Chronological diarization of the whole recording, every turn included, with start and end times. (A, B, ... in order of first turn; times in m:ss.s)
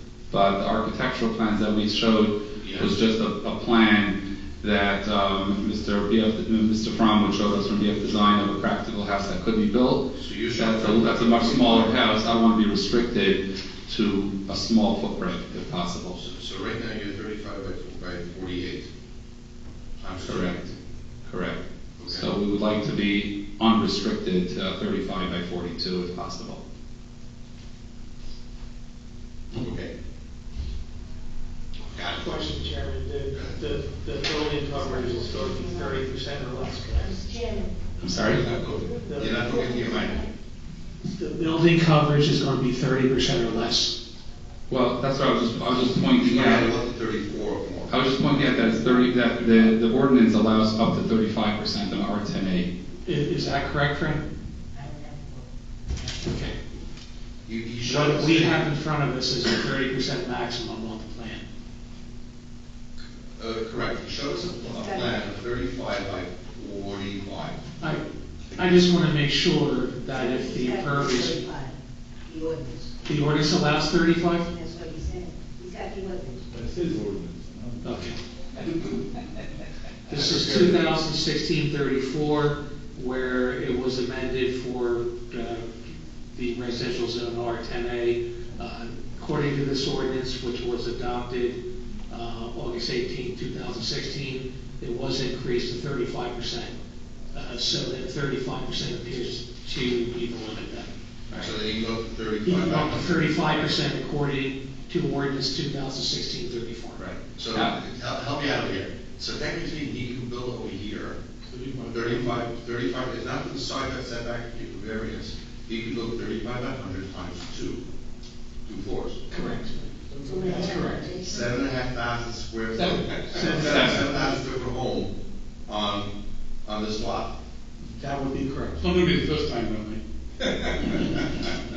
0:00.3-0:16.2 A
0:02.6-0:02.9 B
0:10.2-0:12.0 B
0:16.2-0:18.9 B
0:20.0-0:20.7 B
0:20.2-0:20.6 A
0:21.2-0:26.6 A
0:22.0-0:22.3 B
0:29.5-0:29.9 B
0:31.9-0:32.3 B
0:32.1-0:37.2 C
0:33.3-0:33.6 B
0:34.7-0:36.0 D
0:36.9-0:37.8 D
0:38.0-0:38.4 A
0:38.2-0:40.2 B
0:38.4-0:40.3 D
0:39.1-0:39.6 C
0:41.0-0:43.9 C
0:44.7-0:46.7 A
0:46.2-0:47.9 B
0:47.9-0:52.7 A
0:53.0-0:54.2 C
0:54.7-0:56.3 D
0:56.2-0:56.6 C
0:57.5-0:58.7 B
0:57.8-1:01.4 C
1:03.4-1:07.6 B
1:04.6-1:05.2 D
1:07.8-1:11.4 C
1:08.5-1:08.9 B
1:10.1-1:12.9 D
1:13.0-1:14.5 C
1:14.5-1:16.5 D
1:16.5-1:19.0 E
1:17.8-1:18.2 C
1:20.1-1:25.8 C
1:26.3-1:36.8 C
1:37.3-1:40.9 C
1:41.3-1:43.4 B
1:42.4-1:47.0 C
1:47.0-1:47.8 A
1:47.3-1:51.2 B
1:51.5-1:52.4 E
1:51.9-1:57.8 B
1:58.6-1:59.2 B
1:59.3-2:01.0 C
2:00.0-2:00.6 E
2:00.2-2:01.5 D
2:01.2-2:05.1 B
2:02.8-2:04.3 C
2:03.6-2:04.1 A
2:05.7-2:06.1 B
2:06.6-2:07.3 B
2:07.8-2:08.9 C
2:09.1-2:10.0 E
2:10.6-2:11.0 E